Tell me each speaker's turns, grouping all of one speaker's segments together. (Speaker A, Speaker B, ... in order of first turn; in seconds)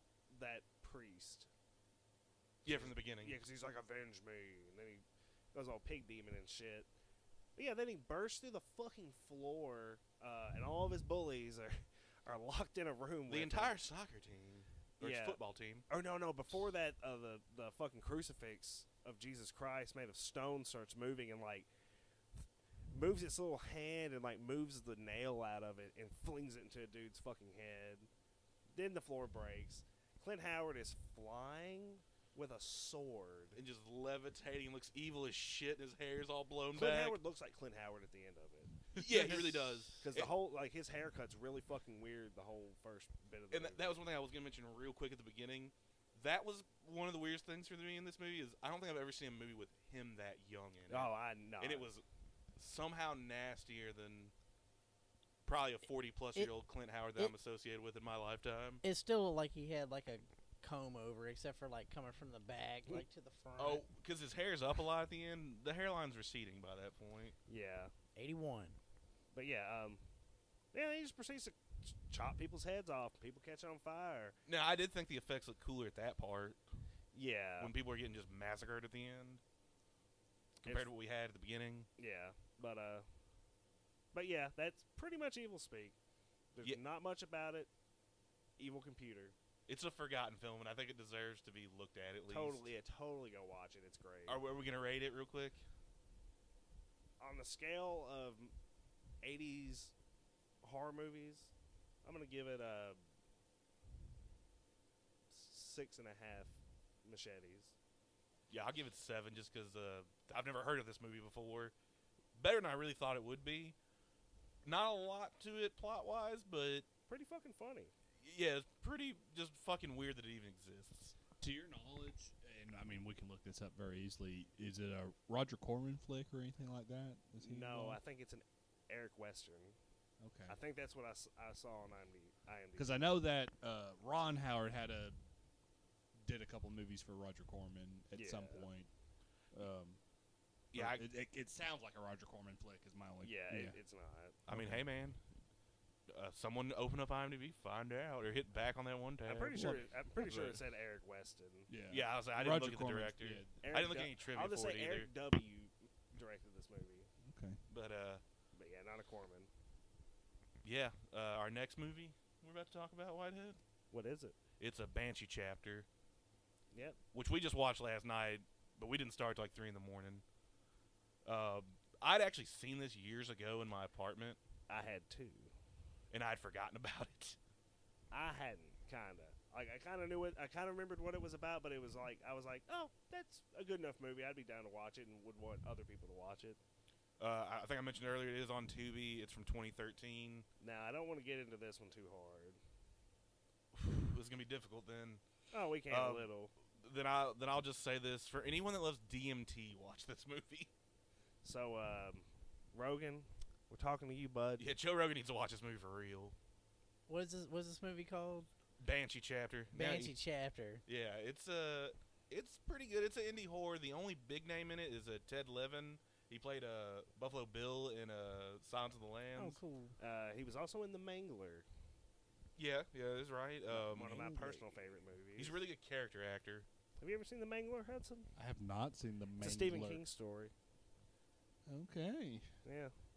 Speaker A: 0.3-1.5, 2.6-6.9, 7.5-13.8, 15.0-21.7, 22.9-28.1, 28.7-33.6, 36.7-44.0, 50.9-51.9, 67.5-67.9, 69.3-70.0, 70.7-74.3, 77.1-77.7, 82.0-83.0, 84.1-86.0, 86.5-87.7, 88.6-89.3, 92.3-94.4, 97.2-98.5, 99.2-99.9, 100.6-101.5, 102.0-103.0, 105.3-107.7, 117.1-117.9, 127.4-129.8, 130.5-133.0, 138.1-138.7, 143.2-144.4, 149.2-151.7, 153.6-157.1, 158.5-159.5, 163.9-164.3, 166.7-167.0, 174.7-175.5, 178.1-186.6, 190.6-192.6, 195.5-196.5, 201.4-204.7, 220.0-221.7, 223.7-225.6, 227.0-228.3, 229.4-230.5, 232.6-232.9
Speaker B: 2.6-3.4, 13.3-15.8, 33.5-37.2, 38.9-40.3, 43.5-52.0, 52.5-54.3, 55.4-58.8, 63.6-67.3, 74.5-76.6, 77.6-79.4, 80.6-81.9, 89.7-92.7, 94.3-95.6, 108.5-111.7, 112.3-113.8, 114.6-116.9, 118.2-121.1, 140.7-141.1, 144.5-145.2, 146.1-149.6, 151.9-155.1, 157.7-158.2, 160.6-163.6, 164.6-165.9, 167.1-170.2, 171.2-174.4, 176.1-177.4, 187.2-190.4, 193.7-195.2, 195.9-200.7, 204.6-206.3, 208.8-210.1, 210.8-219.6, 222.6-224.3, 225.3-226.7
Speaker C: 58.8-63.9, 68.2-68.8, 207.1-208.5, 209.7-210.8, 219.4-219.9, 224.0-224.6
Speaker D: 121.4-128.0, 130.2-130.6, 132.8-135.2, 136.2-138.9, 139.5-140.0, 140.7-143.8, 144.5-144.8, 149.5-150.6, 151.7-153.6, 157.2-157.6, 228.3-230.0, 231.7-232.5